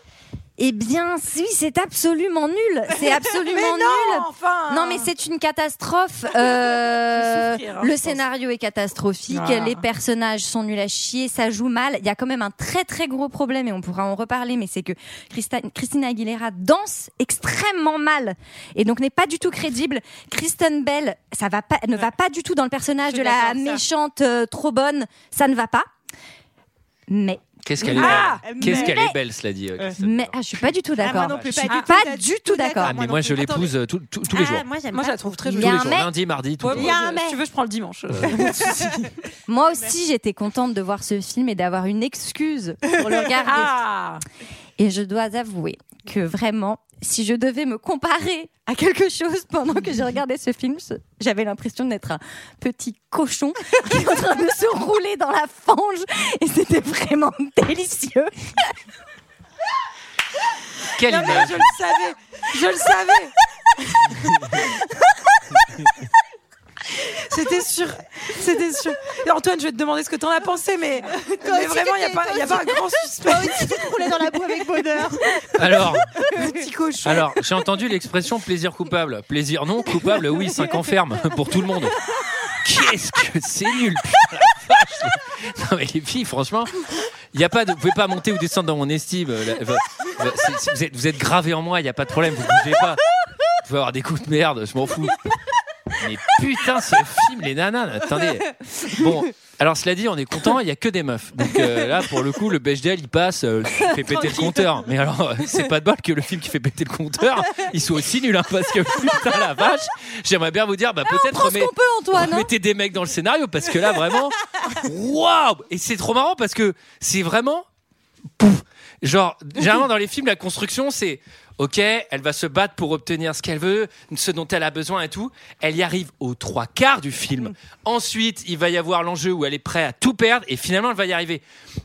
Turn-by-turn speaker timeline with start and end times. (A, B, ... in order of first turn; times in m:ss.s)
0:00.6-0:25.9 A
0:03.4-0:05.1 B
0:07.1-0:08.2 B
0:09.3-0:09.8 B
0:23.1-0:23.8 C
0:27.1-0:27.4 A
0:27.6-0:31.6 D
0:27.9-0:28.8 B
0:28.0-0:29.0 C
0:28.6-0:29.2 A
0:30.0-0:33.0 A
0:31.0-0:33.7 C
0:32.8-0:34.6 D
0:34.3-0:35.6 C
0:34.9-0:36.0 B
0:35.5-0:36.1 A
0:35.6-0:36.9 D
0:36.6-0:39.1 B
0:36.7-0:37.4 C
0:38.2-0:39.0 C
0:39.5-0:43.8 A
0:43.4-0:44.2 B
0:44.8-0:58.7 A
1:01.0-1:01.7 D
1:01.1-1:04.4 B
1:01.2-1:01.8 C
1:04.2-1:04.6 D
1:07.1-1:14.1 B
1:11.2-1:15.4 C
1:15.6-1:16.2 D
1:16.2-1:16.6 C
1:16.2-1:17.4 B
1:17.0-1:22.0 D
1:22.6-1:33.0 D
1:33.6-1:35.2 D
1:36.0-1:57.6 D
1:51.1-1:52.5 A
1:58.4-2:11.4 D